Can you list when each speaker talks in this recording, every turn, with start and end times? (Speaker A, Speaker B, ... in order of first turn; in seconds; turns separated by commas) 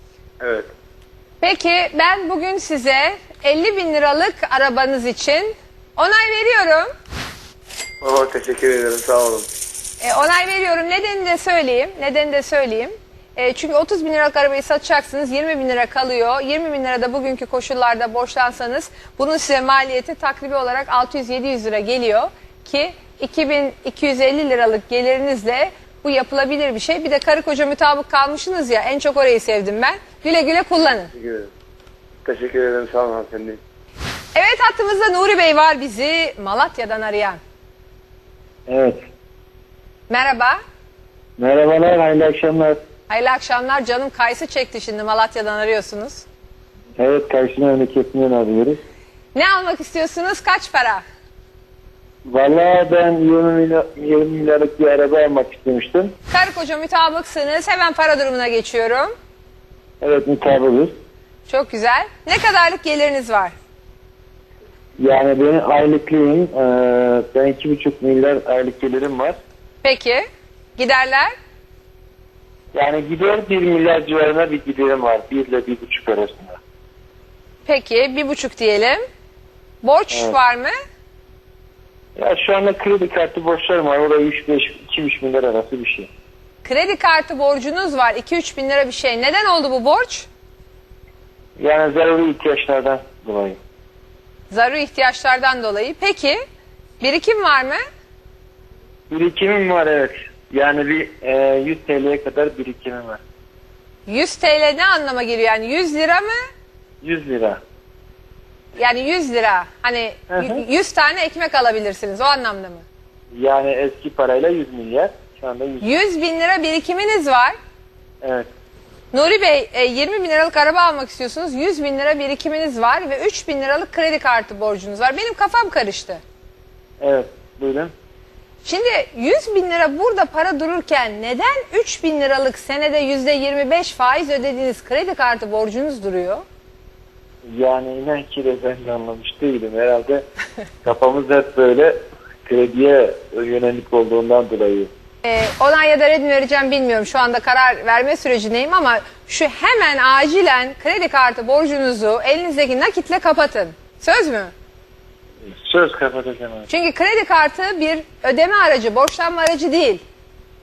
Speaker A: 0.4-0.7, Speaker B: 1.4-6.9, Speaker A: 8.0-9.5, Speaker B: 10.0-31.1, Speaker A: 31.1-31.5, Speaker A: 32.2-33.6, Speaker B: 34.4-37.4, Speaker C: 38.7-39.0, Speaker B: 40.1-40.6, Speaker C: 41.4-42.8, Speaker B: 43.1-46.2, Speaker C: 47.0-48.8, Speaker B: 49.4-51.0, Speaker C: 52.3-56.1, Speaker B: 56.3-59.1, Speaker C: 60.0-60.9, Speaker B: 61.5-63.5, Speaker C: 65.0-69.4, Speaker B: 69.8-70.3, Speaker B: 70.8-71.3, Speaker C: 72.7-76.6, Speaker B: 77.7-79.0, Speaker B: 79.8-80.7, Speaker C: 82.2-86.1, Speaker B: 86.7-90.3, Speaker C: 91.6-93.6, Speaker B: 94.5-96.4, Speaker B: 97.0-97.8, Speaker C: 99.1-103.2, Speaker B: 104.1-106.4, Speaker C: 107.0-107.6, Speaker B: 108.8-112.8, Speaker C: 110.3-110.6, Speaker C: 113.3-115.9, Speaker B: 115.8-117.6, Speaker C: 118.2-118.5, Speaker B: 119.1-126.2, Speaker C: 127.0-127.9, Speaker B: 128.7-136.4, Speaker C: 137.5-140.2, Speaker C: 140.8-144.9, Speaker B: 145.2-154.5, Speaker C: 155.4-156.7, Speaker B: 156.7-160.0